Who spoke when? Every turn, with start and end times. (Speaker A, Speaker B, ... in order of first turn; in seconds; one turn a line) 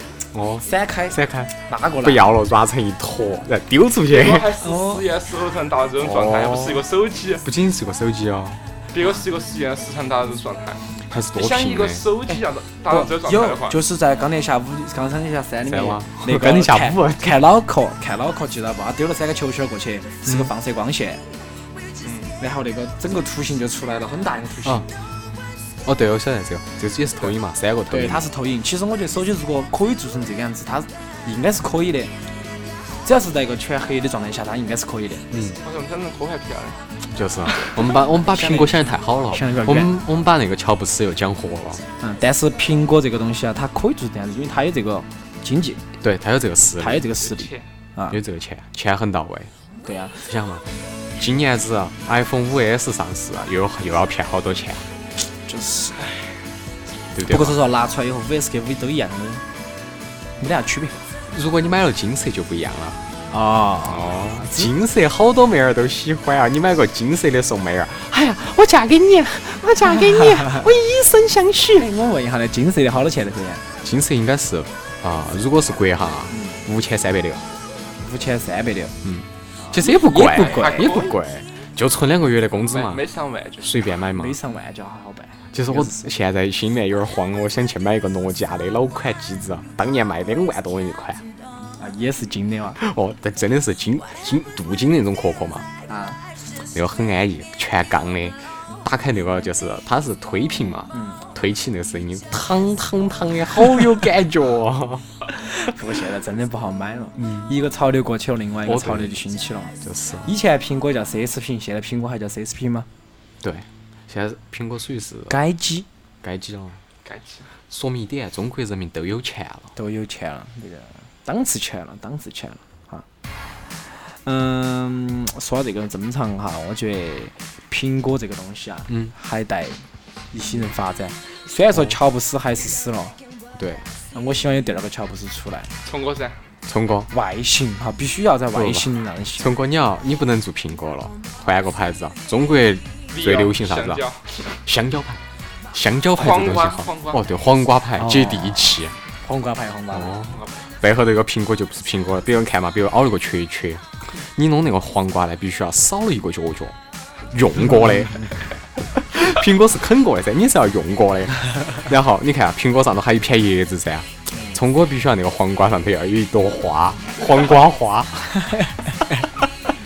Speaker A: 0.3-4.5
Speaker B: 0.6-2.2
Speaker C: 4.1-7.4
Speaker B: 4.6-5.0
Speaker A: 6.0-6.8
Speaker A: 7.4-8.6
Speaker C: 8.9-13.8
Speaker A: 11.1-12.0
Speaker B: 12.9-21.2
Speaker A: 15.7-17.4
Speaker A: 20.2-20.5
Speaker C: 22.0-22.3
Speaker B: 22.4-24.9
Speaker A: 25.8-28.3
Speaker B: 27.9-32.1
Speaker B: 33.0-35.2
Speaker A: 35.3-35.6
Speaker C: 35.6-36.8
Speaker A: 37.1-41.8
Speaker C: 37.5-37.9
Speaker B: 38.1-40.0
Speaker B: 42.0-45.8
Speaker A: 46.0-47.1
Speaker B: 46.8-48.2
Speaker C: 47.2-47.6
Speaker A: 48.1-49.5
Speaker B: 49.8-50.2
Speaker A: 50.2-50.6
Speaker A: 51.2-54.9
Speaker B: 55.5-56.0
Speaker A: 57.1-57.6
Speaker B: 57.3-59.4
Speaker B: 60.4-61.0
Speaker A: 61.3-63.0
Speaker B: 63.3-64.7
Speaker A: 63.9-71.9
Speaker B: 71.7-73.6
Speaker A: 73.8-77.4
Speaker B: 76.3-76.6
Speaker B: 78.0-78.9
Speaker A: 79.0-83.0
Speaker B: 79.6-80.9
Speaker C: 80.4-81.2
Speaker C: 82.7-83.8
Speaker A: 83.6-84.4
Speaker B: 84.2-86.0
Speaker A: 85.5-91.2
Speaker B: 91.8-92.8
Speaker A: 92.8-95.7
Speaker B: 95.9-96.2
Speaker A: 96.7-105.1
Speaker B: 100.9-101.2
Speaker B: 105.3-112.9
Speaker A: 107.2-107.5
Speaker A: 108.7-109.2
Speaker A: 109.8-110.3
Speaker A: 113.4-115.3
Speaker B: 115.3-115.8
Speaker A: 116.2-116.8
Speaker C: 117.0-117.5
Speaker A: 117.7-119.7
Speaker B: 119.8-123.0
Speaker B: 123.9-133.2
Speaker A: 128.9-129.1
Speaker A: 133.6-133.9
Speaker B: 134.1-135.7
Speaker C: 135.8-136.4
Speaker A: 136.7-137.1
Speaker B: 137.1-139.5
Speaker A: 138.5-144.0
Speaker C: 143.1-144.4
Speaker A: 144.6-148.9
Speaker C: 146.2-147.2
Speaker B: 148.0-150.1
Speaker A: 149.9-156.8
Speaker A: 157.3-168.6
Speaker B: 164.3-164.6
Speaker B: 168.4-169.2